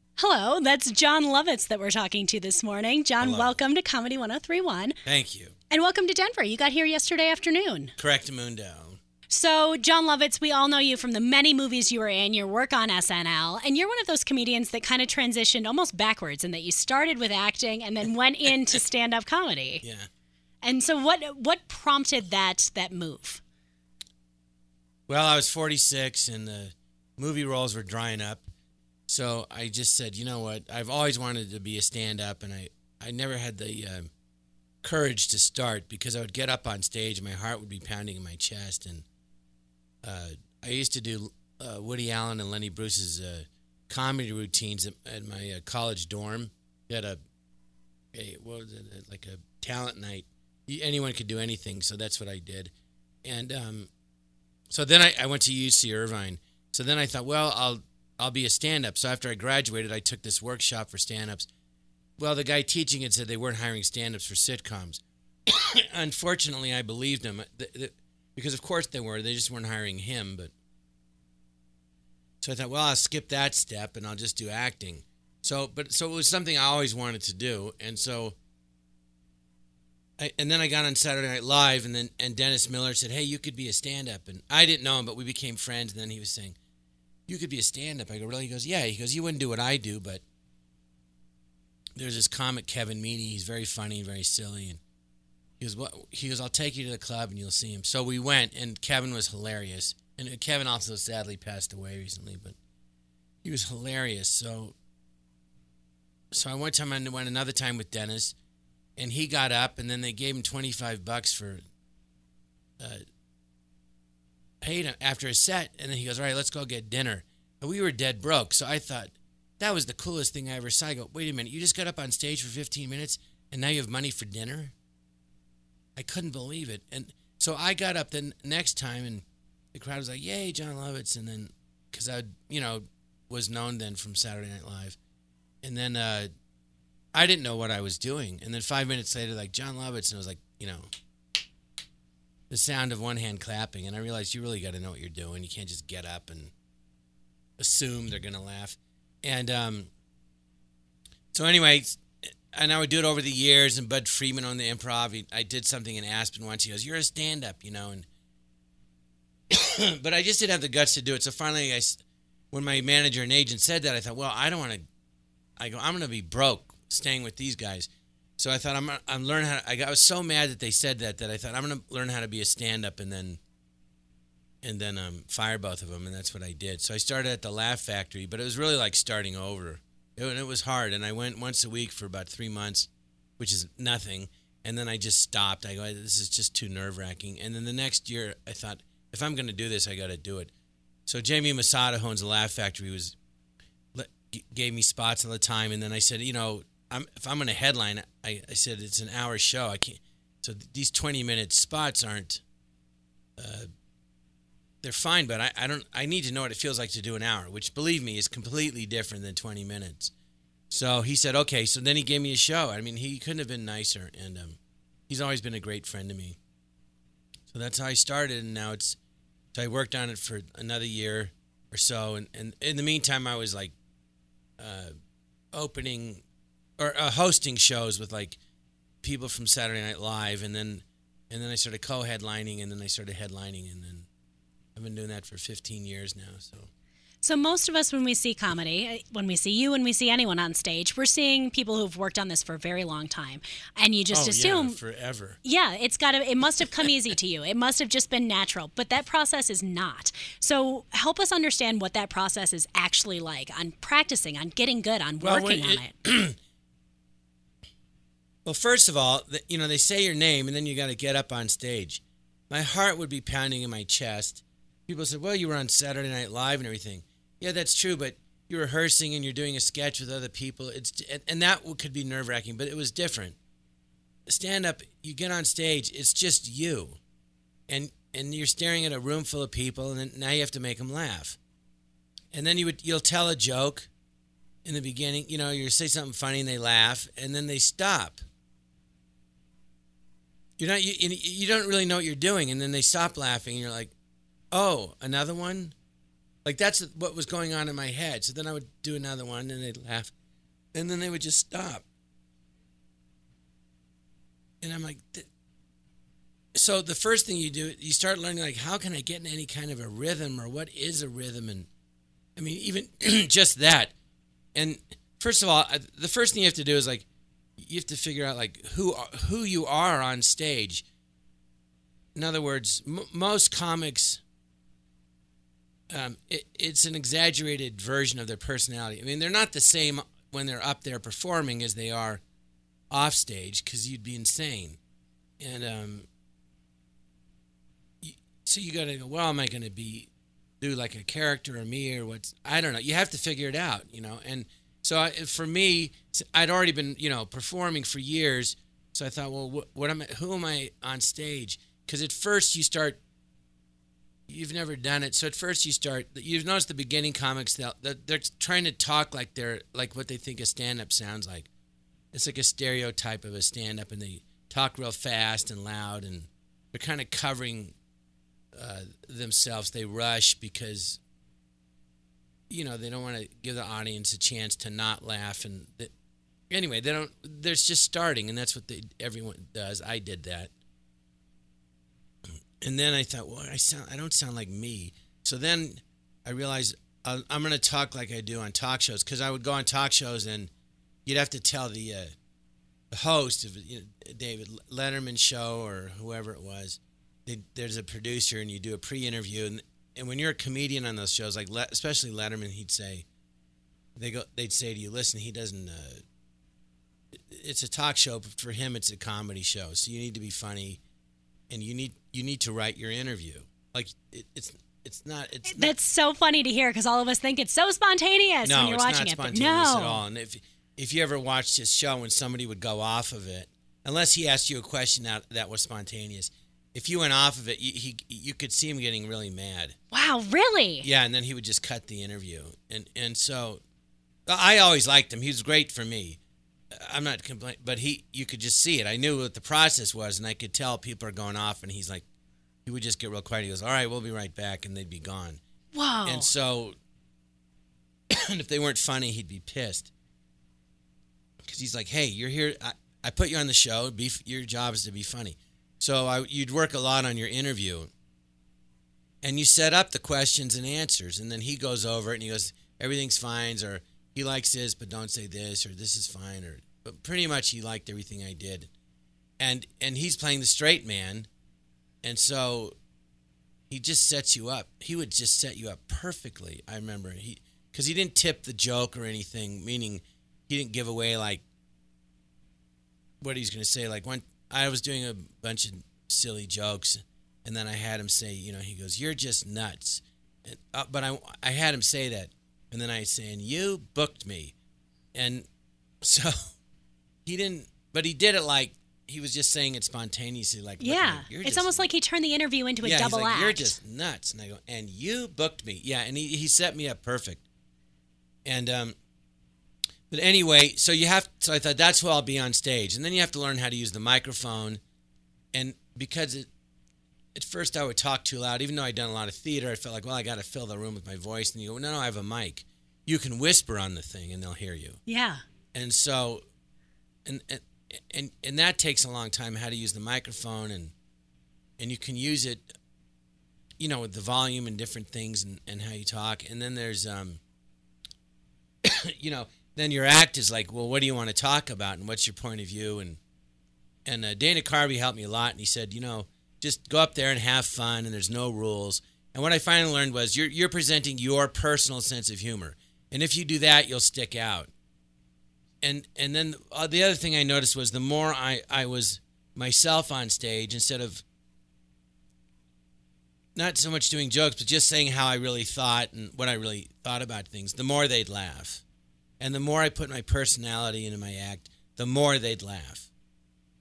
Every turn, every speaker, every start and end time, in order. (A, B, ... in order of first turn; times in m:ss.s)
0:00.2-0:05.0 A
0:03.2-0:03.6 B
0:05.0-0:05.5 B
0:05.7-0:07.9 A
0:08.0-0:09.0 B
0:09.3-0:19.8 A
0:19.8-0:20.1 B
0:20.6-0:23.4 A
0:25.1-0:28.5 B
0:29.1-0:34.1 B
0:34.8-0:39.0 B
0:40.0-0:47.2 B
0:48.1-0:52.7 B
0:53.2-0:53.9 B
0:54.7-1:01.5 B
1:02.2-1:10.5 B
1:12.4-1:18.4 B
1:20.2-1:26.6 B
1:27.3-1:30.2 B
1:32.0-1:34.8 B
1:35.6-1:42.6 B
1:43.4-1:44.7 B
1:46.3-1:48.3 B
1:49.0-1:51.6 B
1:54.6-2:04.7 B
2:06.0-2:15.0 B
2:15.6-2:16.3 B
2:17.1-2:20.9 B
2:22.5-2:26.5 B
2:27.6-2:29.9 B
2:31.3-2:38.0 B
2:39.5-2:42.0 B
2:42.5-2:44.8 B
2:45.6-2:53.4 B
2:54.6-3:10.5 B
3:11.1-3:13.2 B
3:13.9-3:22.4 B
3:23.4-3:23.7 B
3:24.8-3:30.1 B
3:30.7-3:36.4 B
3:37.5-3:39.0 B
3:39.5-3:43.7 B
3:44.6-3:44.9 B
3:45.5-3:46.2 B
3:46.8-3:48.4 B
3:49.0-3:54.1 B
3:54.8-3:56.7 B
3:57.2-4:04.8 A
4:04.1-4:05.4 B
4:05.4-4:15.9 A
4:15.2-4:16.4 B
4:18.4-4:33.4 B
4:34.3-4:37.0 B
4:37.7-4:41.4 B
4:42.3-4:43.9 B
4:44.6-4:48.2 B
4:50.6-4:53.9 B
4:54.5-4:55.7 B
4:56.4-5:00.1 B
5:00.7-5:01.8 B
5:04.6-5:05.2 B
5:06.5-5:11.7 B
5:12.4-5:13.9 B
5:14.5-5:17.1 B
5:17.6-5:20.8 B
5:22.1-5:24.2 B
5:25.9-5:32.2 B
5:32.9-5:34.8 B
5:35.4-5:36.1 B
5:38.0-5:40.1 B
5:40.6-5:53.0 B
5:54.3-6:01.5 B
6:02.1-6:07.7 B
6:08.5-6:11.0 B
6:12.5-6:15.9 B
6:16.5-6:20.5 B
6:22.6-6:30.5 B
6:31.0-6:32.1 B
6:32.9-6:43.0 B
6:44.0-6:46.0 B
6:47.3-6:50.8 B
6:51.5-6:55.7 B
6:55.4-7:00.0 A
6:58.4-7:09.8 B
7:09.9-7:10.9 A
7:10.8-7:13.6 B
7:14.3-7:16.2 B
7:16.7-7:22.0 B
7:22.6-7:25.4 B
7:25.7-7:26.3 A
7:26.0-7:26.7 B
7:28.1-7:29.9 B
7:31.4-7:37.9 B
7:39.2-7:48.7 B
7:49.4-7:51.3 B
7:52.0-7:52.7 B
7:53.7-8:01.4 B
8:03.2-8:14.5 B
8:15.1-8:15.5 B
8:16.0-8:16.4 B
8:17.2-8:21.8 B
8:20.8-8:23.8 A
8:22.8-8:27.4 B
8:28.4-8:28.9 B
8:30.1-8:34.8 B
8:35.5-8:36.5 B
8:37.3-8:45.0 B
8:45.1-8:45.4 A
8:45.7-8:46.4 B
8:47.2-8:50.9 B
8:51.8-8:52.6 B
8:53.8-8:57.4 B
8:58.8-9:03.2 B
9:04.0-9:14.7 B
9:15.8-9:21.2 B
9:23.5-9:28.8 B
9:29.4-9:33.1 B